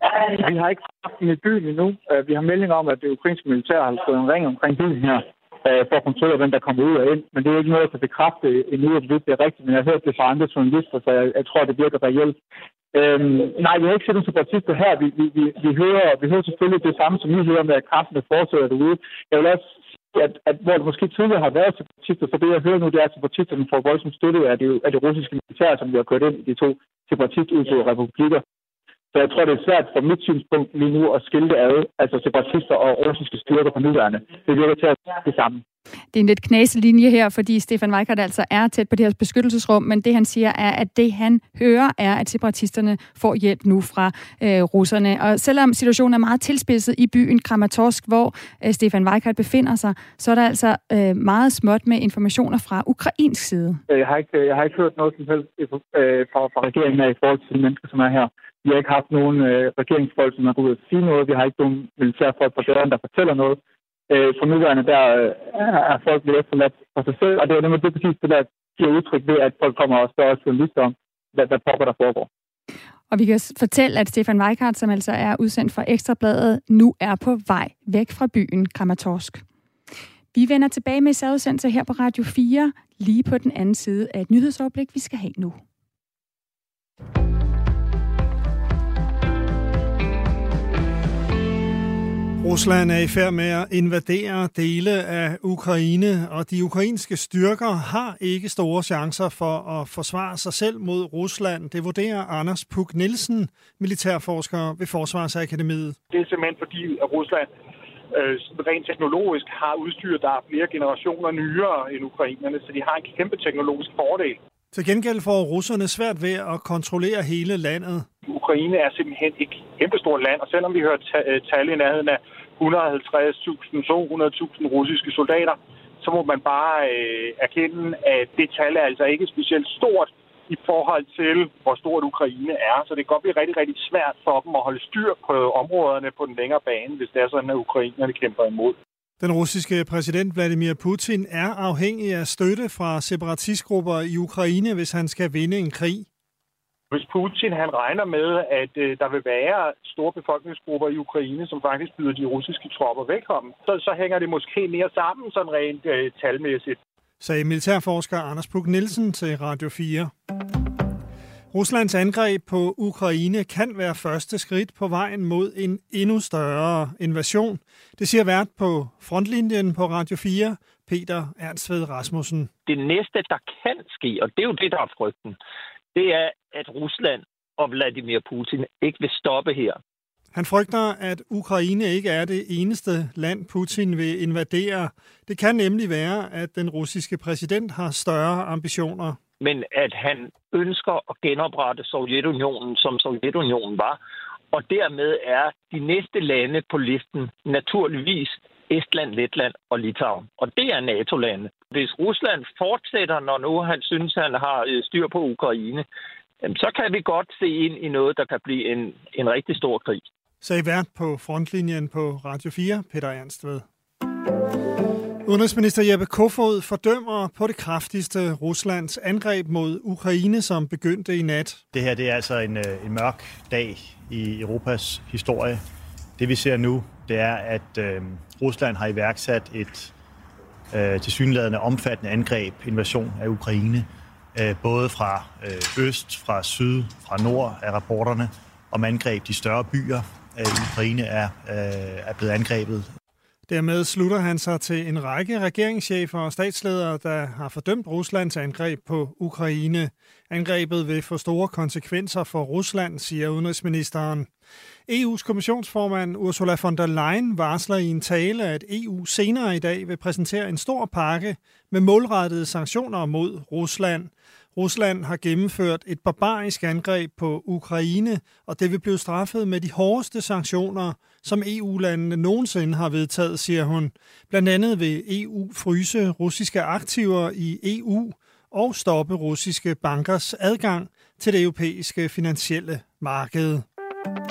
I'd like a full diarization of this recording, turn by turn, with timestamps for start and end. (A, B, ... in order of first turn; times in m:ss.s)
0:00.2-0:12.4 A
0:12.9-0:28.4 A
0:29.1-0:35.6 A
0:36.1-0:53.8 B
0:53.9-1:03.6 A
1:04.1-1:12.3 A
1:13.1-1:19.4 B
1:20.3-1:25.6 B
1:32.4-1:46.0 C
1:46.1-1:47.5 D
1:48.1-1:54.4 D
1:54.7-1:58.1 C
1:58.2-2:18.8 D
2:19.2-2:26.1 C
2:26.9-2:36.8 D
2:37.2-2:40.1 C
2:41.5-2:52.5 C
2:52.7-2:55.4 E
2:55.9-2:59.8 E
3:00.3-3:09.2 C
3:09.4-3:14.0 E
3:14.5-3:25.9 E
3:26.4-3:30.0 E
3:30.4-3:33.7 C
3:35.2-3:41.6 C
3:41.7-3:45.6 F
3:46.2-3:49.9 F
3:50.7-4:02.9 F
4:03.5-4:14.3 C
4:14.9-4:43.7 C